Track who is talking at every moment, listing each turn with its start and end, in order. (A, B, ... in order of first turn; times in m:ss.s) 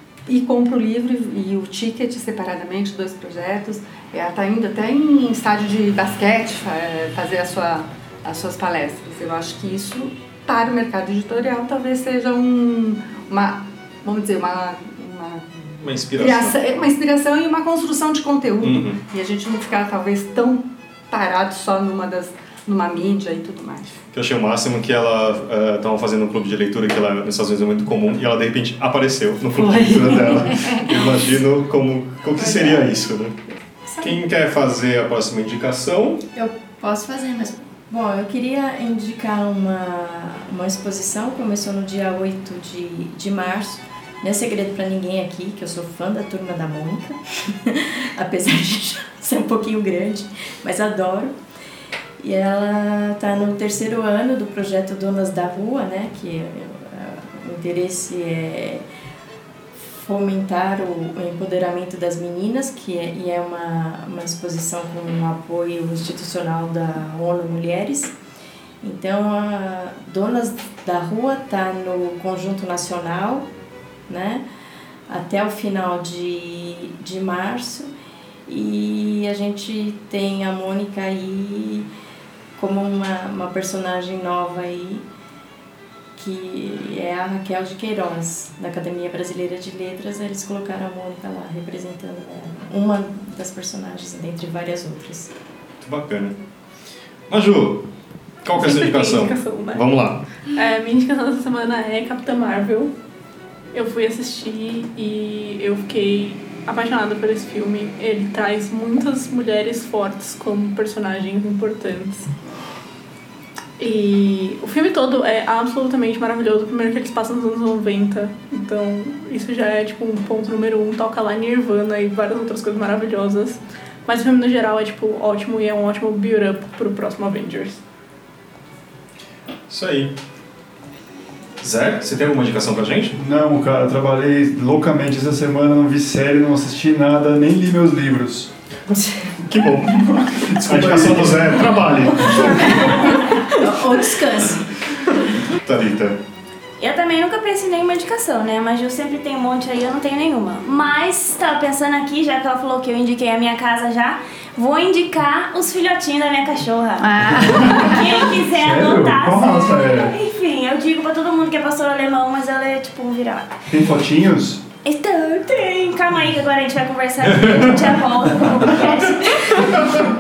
0:00.3-0:23.9 A
0:15.8-0:16.6 B
0:18.6-0:19.0 B
0:24.1-0:33.4 B
0:29.6-0:31.1 A
0:32.4-0:32.8 A
0:34.0-0:36.2 B
0:36.4-0:51.4 C
0:52.2-0:58.8 C
0:59.9-1:08.2 C
1:08.8-1:13.5 C
1:14.1-1:14.4 C
1:15.1-1:17.9 C
1:18.5-1:21.9 C
1:22.6-1:25.0 C
1:26.2-1:35.3 C
1:35.8-1:36.4 B
1:37.3-1:37.9 B
1:38.4-1:40.3 B
1:38.6-1:39.9 D
1:40.5-1:42.9 D
1:43.7-1:52.3 D
1:53.8-2:07.8 D
2:09.7-2:10.1 B
2:11.6-2:13.2 B
2:13.2-2:18.5 E
2:19.4-2:23.4 B
2:19.9-2:23.1 E
2:23.6-2:24.6 C
2:25.2-2:26.2 B
2:26.8-2:43.6 F
2:37.1-2:38.0 E
2:38.5-2:40.2 E
2:43.7-2:44.6 E
2:44.8-2:50.0 F